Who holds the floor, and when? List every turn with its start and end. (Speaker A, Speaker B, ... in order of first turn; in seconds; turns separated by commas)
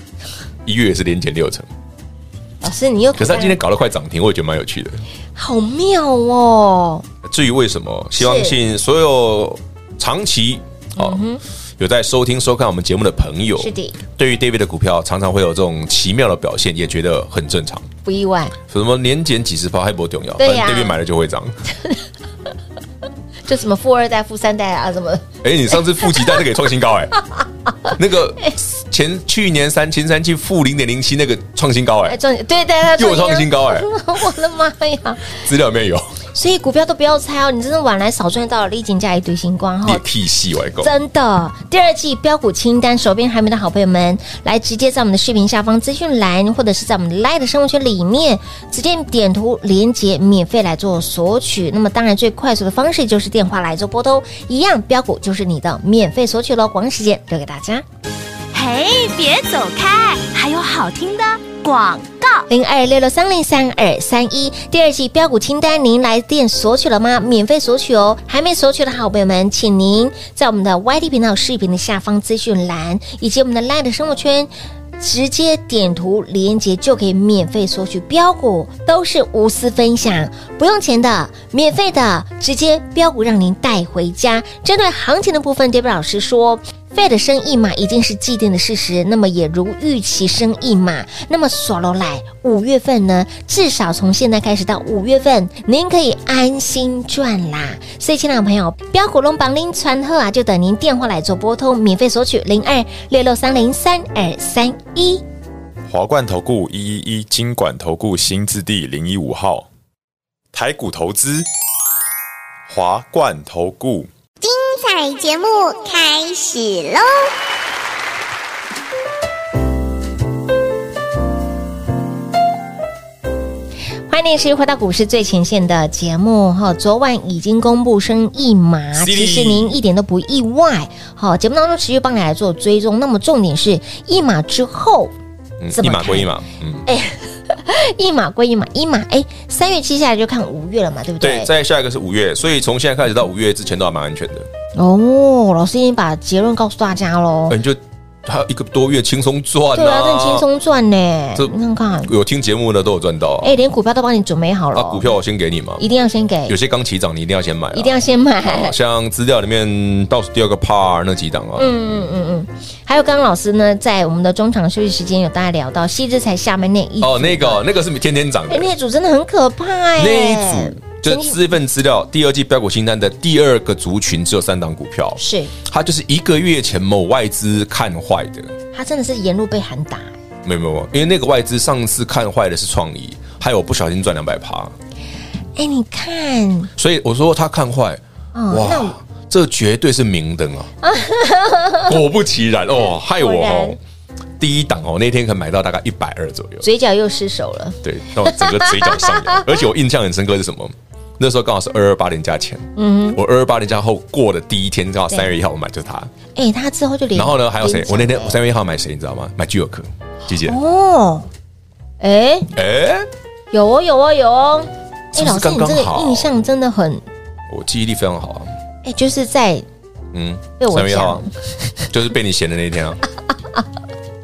Speaker A: 0.7-1.7, Speaker B: 2.6-3.6, Speaker A: 3.2-5.0, Speaker B: 5.3-7.0, Speaker A: 7.2-11.2, Speaker B: 8.2-8.6, Speaker B: 11.0-11.4, Speaker A: 11.8-17.9, Speaker B: 13.6-14.0, Speaker B: 18.1-18.6, Speaker A: 18.7-21.6, Speaker B: 20.4-21.0, Speaker B: 23.4-26.4, Speaker A: 25.4-27.2, Speaker A: 27.9-32.2, Speaker B: 32.1-35.4, Speaker A: 33.0-33.9, Speaker A: 35.3-36.1, Speaker B: 36.3-40.0, Speaker A: 39.8-40.9, Speaker B: 40.8-57.8, Speaker C: 58.5-62.5, Speaker B: 62.5-105.2, Speaker D: 105.9-109.7, Speaker D: 110.5-111.5, Speaker D: 112.7-114.1, Speaker E: 114.4-117.3, Speaker B: 124.1-135.1, Speaker A: 128.9-129.8, Speaker A: 135.6-136.8, Speaker B: 135.7-136.3, Speaker B: 136.9-141.5, Speaker A: 141.2-144.5, Speaker B: 144.8-147.6, Speaker A: 147.5-150.5, Speaker B: 149.8-152.1, Speaker A: 151.4-153.5, Speaker B: 153.4-155.1, Speaker A: 154.7-155.8, Speaker B: 155.8-156.6, Speaker A: 156.5-161.8, Speaker B: 157.7-158.8, Speaker B: 161.6-167.7, Speaker A: 167.0-168.7, Speaker B: 168.5-171.4, Speaker A: 170.0-178.5, Speaker B: 175.2-175.5, Speaker B: 178.7-180.1, Speaker A: 180.4-184.7, Speaker B: 185.6-186.7, Speaker A: 186.8-190.7, Speaker B: 188.3-189.0, Speaker B: 190.8-192.0, Speaker A: 191.9-193.8, Speaker B: 193.2-193.8, Speaker A: 194.4-196.7, Speaker B: 196.6-199.4, Speaker A: 197.8-206.1, Speaker B: 202.8-203.2, Speaker B: 206.3-208.4, Speaker A: 207.1-210.6, Speaker B: 210.4-211.3, Speaker B: 212.0-212.5, Speaker A: 212.6-213.1, Speaker B: 213.5-217.1, Speaker A: 215.1-216.3, Speaker A: 217.5-218.5, Speaker B: 218.8-219.7, Speaker A: 220.1-221.3, Speaker B: 220.6-221.8, Speaker A: 221.9-223.0